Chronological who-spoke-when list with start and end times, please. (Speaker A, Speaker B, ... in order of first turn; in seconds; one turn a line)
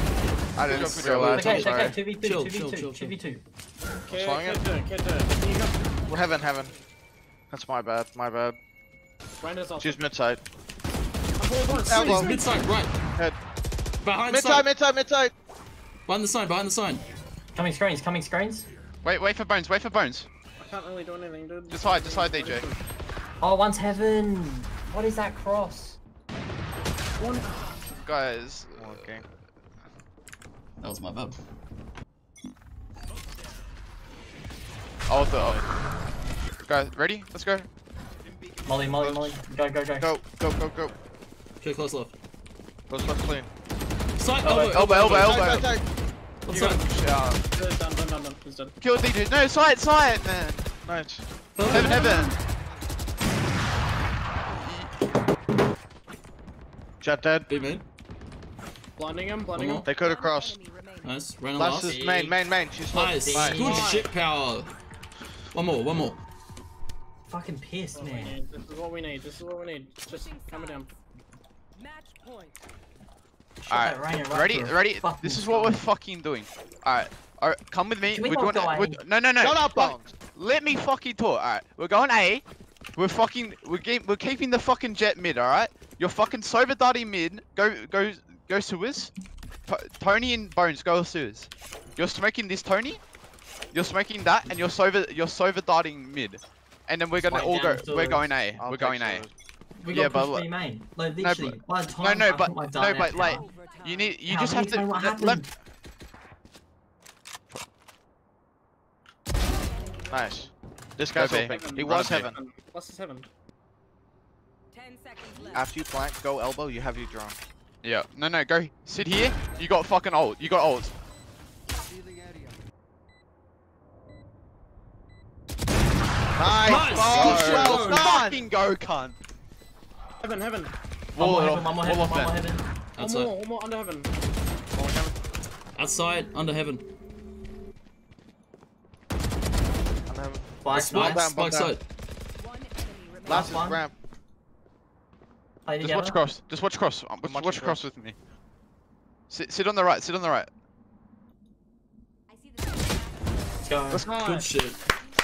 Speaker A: 0.6-1.9
Speaker B: 0.7-1.7
Speaker C: 0.7-3.2
Speaker D: 1.3-3.4
Speaker E: 4.0-5.8
Speaker A: 4.1-4.6
Speaker F: 5.9-6.8
Speaker A: 6.1-6.7
Speaker A: 7.5-8.6
Speaker E: 9.4-10.0
Speaker A: 9.8-10.4
Speaker E: 11.4-12.4
Speaker A: 11.7-12.3
Speaker C: 12.0-12.9
Speaker C: 14.0-14.7
Speaker A: 14.3-15.3
Speaker C: 16.1-17.0
Speaker D: 17.5-18.7
Speaker B: 19.0-20.3
Speaker E: 20.6-22.8
Speaker B: 21.7-22.6
Speaker D: 23.4-26.0
Speaker E: 27.2-27.8
Speaker B: 27.9-29.1
Speaker A: 28.8-29.2
Speaker C: 30.8-31.4
Speaker B: 35.1-35.6
Speaker B: 36.6-37.7
Speaker D: 38.6-40.1
Speaker A: 39.0-39.3
Speaker A: 40.0-40.9
Speaker C: 41.6-42.1
Speaker A: 42.9-43.5
Speaker C: 44.2-45.5
Speaker D: 44.4-45.2
Speaker B: 44.6-45.7
Speaker A: 45.0-45.8
Speaker C: 46.4-46.8
Speaker B: 46.5-47.5
Speaker E: 47.5-48.7
Speaker B: 48.8-50.8
Speaker A: 50.8-51.2
Speaker C: 51.5-52.3
Speaker B: 51.6-52.3
Speaker B: 54.5-54.9
Speaker A: 57.0-57.5
Speaker C: 57.5-57.8
Speaker E: 59.0-59.9
Speaker C: 59.5-59.9
Speaker A: 59.8-60.6
Speaker F: 59.9-61.2
Speaker C: 61.0-62.0
Speaker A: 61.5-63.9
Speaker D: 61.8-62.4
Speaker C: 62.9-64.7
Speaker D: 63.1-64.1
Speaker E: 63.6-64.0
Speaker C: 65.5-66.2
Speaker D: 67.3-68.4
Speaker E: 67.9-70.9
Speaker F: 70.0-70.8
Speaker F: 71.8-72.5
Speaker D: 73.6-75.8
Speaker B: 73.7-82.4
Speaker D: 78.0-79.0
Speaker A: 79.4-80.1
Speaker B: 83.0-89.1
Speaker B: 89.7-93.0
Speaker B: 93.7-99.2
Speaker D: 97.1-98.3
Speaker A: 98.6-99.3
Speaker D: 99.8-103.5
Speaker B: 99.9-100.5
Speaker B: 101.2-105.5
Speaker F: 103.1-104.2
Speaker D: 104.2-105.5
Speaker F: 109.8-110.1
Speaker A: 110.1-112.4
Speaker B: 111.2-112.3
Speaker E: 111.5-113.3
Speaker F: 114.7-115.7
Speaker A: 115.5-117.4
Speaker B: 117.8-120.9
Speaker A: 126.3-128.4
Speaker C: 126.6-128.1
Speaker B: 126.8-129.2
Speaker E: 130.2-130.7
Speaker B: 131.1-132.3
Speaker D: 131.2-132.6
Speaker C: 132.9-133.3
Speaker E: 133.0-134.1
Speaker A: 134.7-135.2
Speaker C: 135.7-136.8
Speaker A: 140.1-141.7
Speaker D: 140.6-141.3
Speaker C: 140.7-141.8
Speaker F: 142.4-143.6
Speaker A: 143.2-143.9
Speaker D: 143.3-143.8
Speaker D: 145.7-146.2
Speaker B: 145.8-148.2
Speaker A: 147.2-147.8
Speaker B: 149.3-150.5
Speaker F: 152.3-153.6
Speaker D: 153.6-154.1
Speaker E: 154.1-154.5
Speaker C: 154.1-154.8